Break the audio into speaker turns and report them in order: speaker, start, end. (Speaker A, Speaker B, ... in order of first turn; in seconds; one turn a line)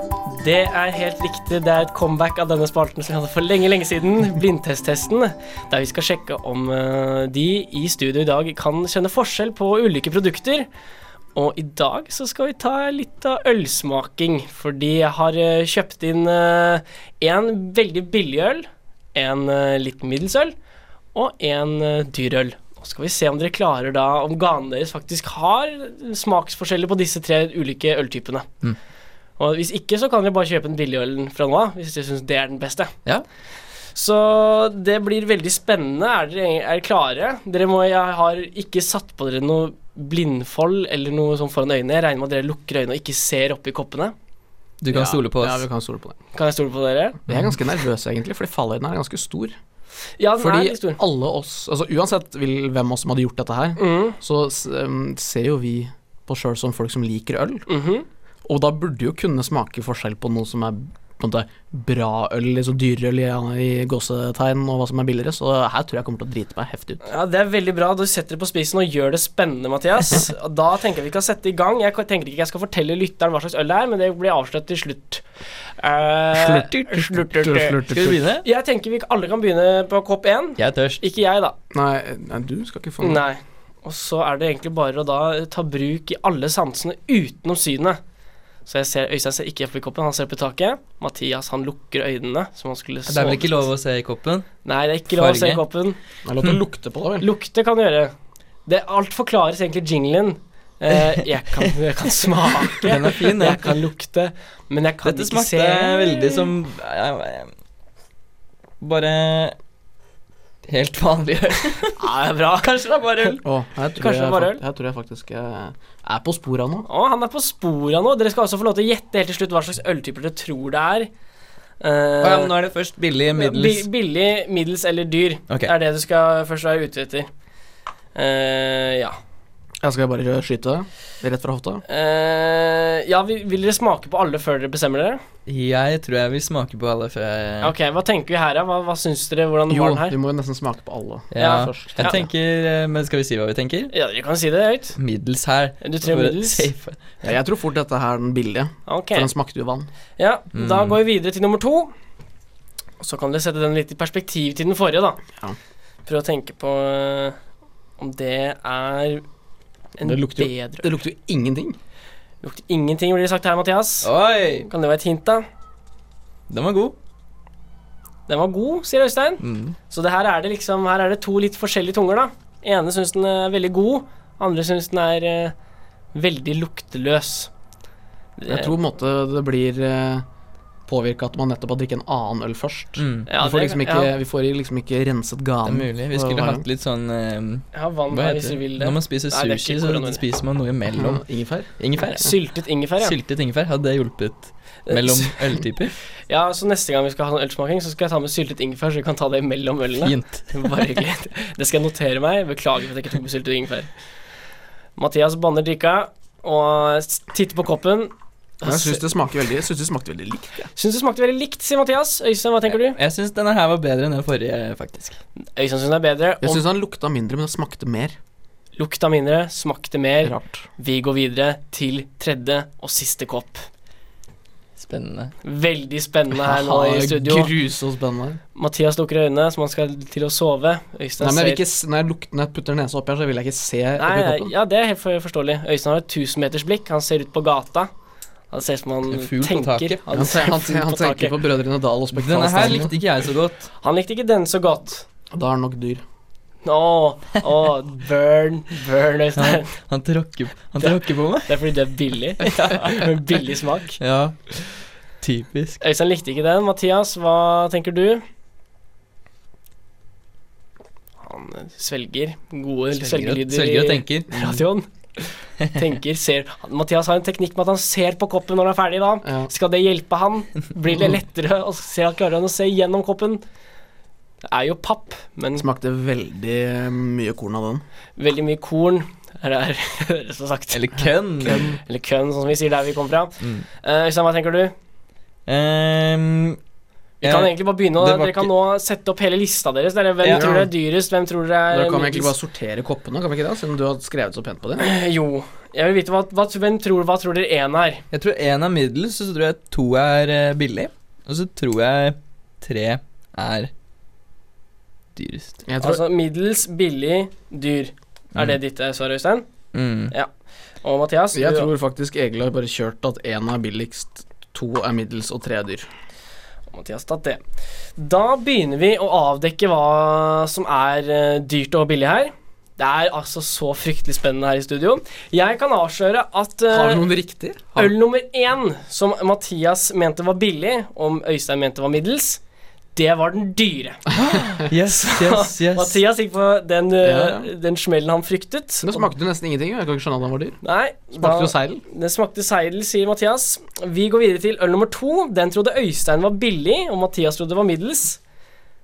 Speaker A: 0.3-10.7
Speaker A: 11.3-20.5
Speaker A: 21.1-28.5
Speaker A: 29.4-32.9
Speaker A: 33.9-44.1
Speaker B: 44.8-45.6
Speaker C: 44.9-46.2
Speaker A: 46.3-47.2
Speaker C: 47.3-49.5
Speaker A: 50.2-51.0
Speaker C: 50.4-57.6
Speaker A: 53.8-54.2
Speaker A: 57.7-58.0
Speaker C: 58.5-67.0
Speaker A: 67.0-75.2
Speaker A: 75.8-77.8
Speaker C: 76.3-78.2
Speaker B: 77.8-78.4
Speaker A: 78.4-81.5
Speaker B: 80.6-81.0
Speaker C: 81.7-83.2
Speaker A: 83.0-88.0
Speaker A: 88.7-93.6
Speaker B: 93.1-94.5
Speaker A: 94.6-96.0
Speaker B: 95.1-95.6
Speaker C: 96.2-97.3
Speaker A: 97.2-98.1
Speaker A: 98.7-106.5
Speaker B: 100.9-101.7
Speaker B: 102.6-103.7
Speaker B: 105.0-107.5
Speaker B: 108.8-109.5
Speaker B: 110.7-113.4
Speaker A: 112.0-112.7
Speaker C: 113.4-116.9
Speaker A: 114.0-114.6
Speaker A: 116.9-121.1
Speaker A: 121.8-122.5
Speaker B: 122.2-123.9
Speaker A: 123.3-127.3
Speaker A: 128.1-129.2
Speaker C: 129.8-131.8
Speaker A: 131.9-135.2
Speaker B: 135.5-137.7
Speaker A: 137.6-140.2
Speaker C: 139.7-142.2
Speaker B: 141.3-143.9
Speaker A: 141.4-142.2
Speaker A: 143.9-145.0
Speaker B: 145.0-147.1
Speaker A: 145.8-146.7
Speaker C: 147.2-149.9
Speaker A: 148.8-149.3
Speaker A: 150.2-151.9
Speaker B: 150.5-151.0
Speaker A: 153.0-155.2
Speaker A: 156.1-157.4
Speaker A: 158.0-159.2
Speaker A: 160.0-160.9
Speaker C: 160.0-161.8
Speaker A: 162.4-164.1
Speaker B: 164.0-164.7
Speaker A: 164.6-165.4
Speaker B: 166.5-166.9
Speaker A: 168.3-175.5
Speaker B: 169.4-169.8
Speaker A: 176.1-177.5
Speaker A: 178.4-178.7
Speaker C: 178.5-180.2
Speaker C: 180.9-186.6
Speaker B: 183.0-183.3
Speaker A: 183.3-184.1
Speaker B: 185.6-191.2
Speaker A: 187.7-190.2
Speaker C: 190.9-191.7
Speaker B: 191.8-192.3
Speaker A: 192.0-193.2
Speaker B: 193.0-195.9
Speaker A: 194.9-195.4
Speaker A: 196.3-203.9
Speaker B: 200.0-200.9
Speaker A: 204.9-209.0
Speaker C: 208.6-210.7
Speaker A: 210.8-213.0
Speaker B: 212.8-215.2
Speaker A: 215.6-216.6
Speaker C: 216.4-218.2
Speaker A: 218.8-223.7
Speaker C: 220.2-220.6
Speaker B: 224.8-225.3
Speaker A: 225.4-227.5
Speaker C: 226.3-228.4
Speaker A: 228.6-231.6
Speaker C: 231.2-234.5
Speaker A: 234.0-237.9
Speaker A: 238.5-241.3
Speaker B: 239.1-240.0
Speaker C: 240.1-242.9
Speaker B: 242.1-243.7
Speaker A: 243.8-245.1
Speaker C: 245.3-246.0
Speaker A: 246.6-249.7
Speaker B: 249.3-251.5
Speaker A: 250.8-254.0
Speaker B: 252.4-253.1
Speaker B: 254.0-254.7
Speaker B: 255.2-255.8
Speaker A: 255.8-258.2
Speaker A: 261.2-273.4
Speaker B: 263.0-264.3
Speaker C: 264.3-264.6
Speaker C: 269.2-269.5
Speaker A: 274.4-275.6
Speaker C: 275.5-277.8
Speaker A: 278.2-280.8
Speaker B: 280.7-281.7
Speaker C: 281.4-281.8
Speaker A: 281.8-284.7
Speaker B: 285.5-286.6
Speaker B: 287.2-288.5
Speaker A: 287.2-292.3
Speaker C: 290.3-290.7
Speaker C: 291.7-294.9
Speaker A: 294.8-298.0
Speaker B: 298.1-303.7
Speaker B: 305.1-305.6
Speaker C: 305.7-306.0
Speaker A: 305.8-309.5
Speaker B: 309.7-310.1
Speaker A: 310.8-311.7
Speaker C: 311.3-315.9
Speaker A: 316.7-317.4
Speaker A: 318.0-327.1
Speaker C: 326.7-327.9
Speaker A: 327.7-332.4
Speaker A: 332.9-339.1
Speaker B: 334.3-336.0
Speaker C: 337.0-337.5
Speaker C: 338.8-340.6
Speaker A: 340.6-348.2
Speaker C: 341.1-341.8